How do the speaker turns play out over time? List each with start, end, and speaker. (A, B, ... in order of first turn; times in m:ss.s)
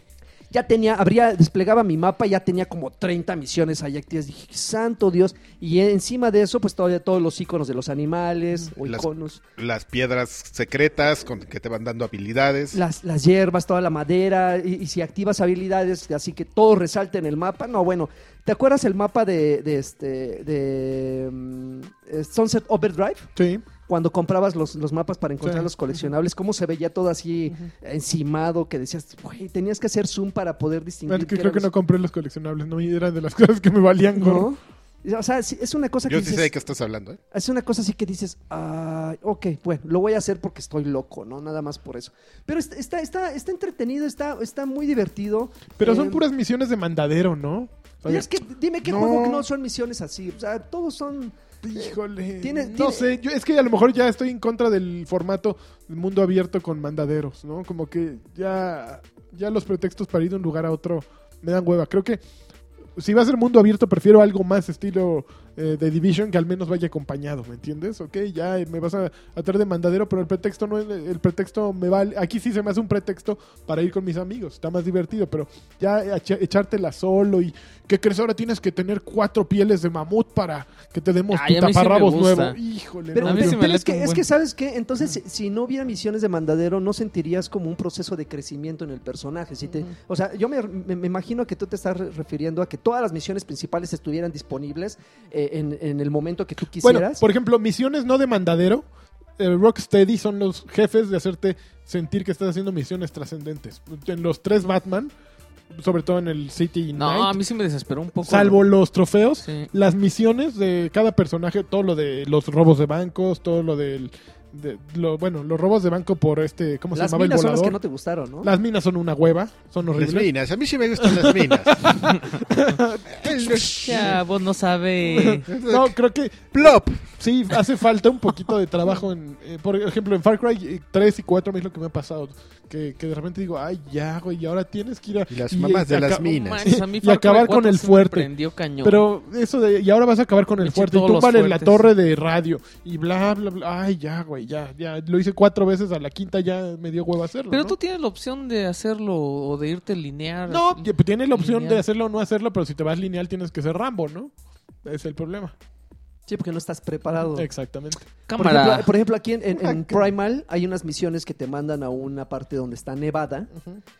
0:00.5-0:09.4 A
0:08.8-0:12.8 B
0:12.7-0:23.3 A
0:23.4-0:23.6 C
0:23.9-0:31.7 A
0:25.4-0:25.7 C
0:31.1-0:34.5 C
0:34.2-0:36.5 A
0:36.1-0:37.2 B
0:37.3-0:46.2 A
0:45.8-0:48.3 C
0:48.0-0:53.1 A
0:48.8-0:49.4 C
0:51.6-1:02.2 C
1:03.0-1:23.6 C
1:21.3-1:22.6 D
1:23.1-1:37.2 A
1:23.2-1:24.2 D
1:36.8-1:38.8 C
1:39.4-1:45.1 C
1:45.7-1:47.4 C
1:46.9-1:48.6 D
1:48.2-1:57.8 C
1:49.4-1:49.7 D
1:56.9-1:58.5 A
1:58.4-2:00.3 C
1:59.9-2:02.1 B
2:01.0-2:04.2 C
2:03.2-2:04.1 B
2:03.6-2:05.5 D
2:05.1-2:18.3 C
2:05.4-2:06.0 B
2:06.5-2:06.9 B
2:15.3-2:16.7 B
2:16.2-2:19.0 D
2:18.8-2:27.8 C
2:20.6-2:21.9 D
2:27.5-2:31.8 D
2:30.5-2:34.3 C
2:34.8-2:35.5 C
2:36.3-2:37.5 A
2:37.3-2:38.0 C
2:38.3-2:38.9 D
2:38.3-2:43.5 A
2:39.6-2:40.0 C